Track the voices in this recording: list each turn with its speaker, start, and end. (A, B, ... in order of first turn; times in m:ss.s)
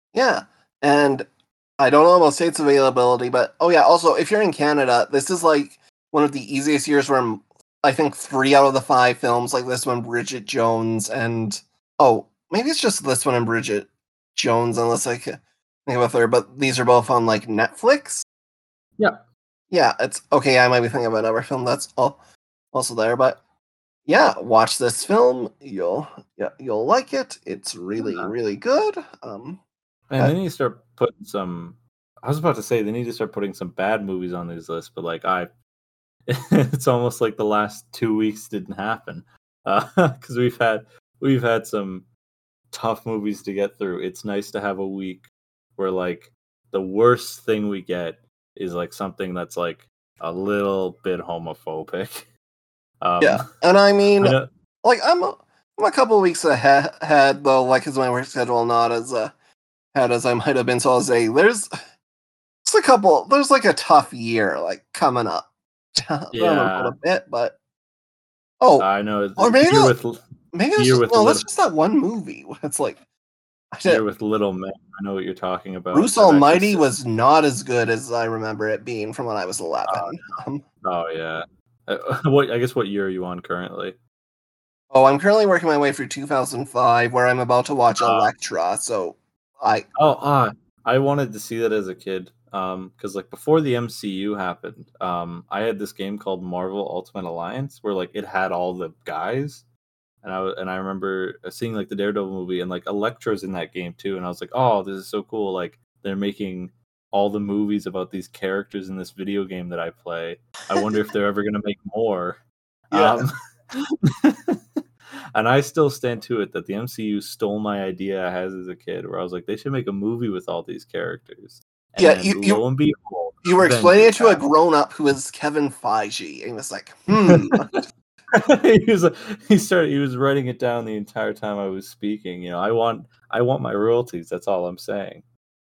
0:00.1-0:18.2 A
0:19.0-0:19.2 B
0:19.7-0:22.2 A
0:22.7-0:23.4 A
0:24.1-0:29.6 A
0:28.0-0:28.3 B
0:30.1-0:35.5 B
0:36.3-0:42.1 B
0:42.7-0:52.3 B
0:53.0-0:53.5 B
0:53.2-0:59.3 A
0:54.2-0:54.5 B
0:59.9-1:01.7 A
1:02.6-1:07.6 A
1:06.3-1:07.0 B
1:08.6-1:10.0 A
1:08.8-1:10.2 B
1:10.5-1:13.0 A
1:10.7-1:11.5 B
1:13.7-1:14.0 A
1:13.8-1:16.9 B
1:15.9-1:20.6 A
1:19.8-1:20.2 B
1:20.8-1:24.0 B
1:24.9-1:29.9 A
1:28.0-1:28.4 B
1:30.0-1:39.7 B
1:40.2-1:54.6 B
1:52.9-1:53.2 A
1:55.3-2:04.4 B
2:02.0-2:02.6 A
2:03.4-2:07.6 A
2:07.2-2:07.8 B
2:08.3-2:15.2 B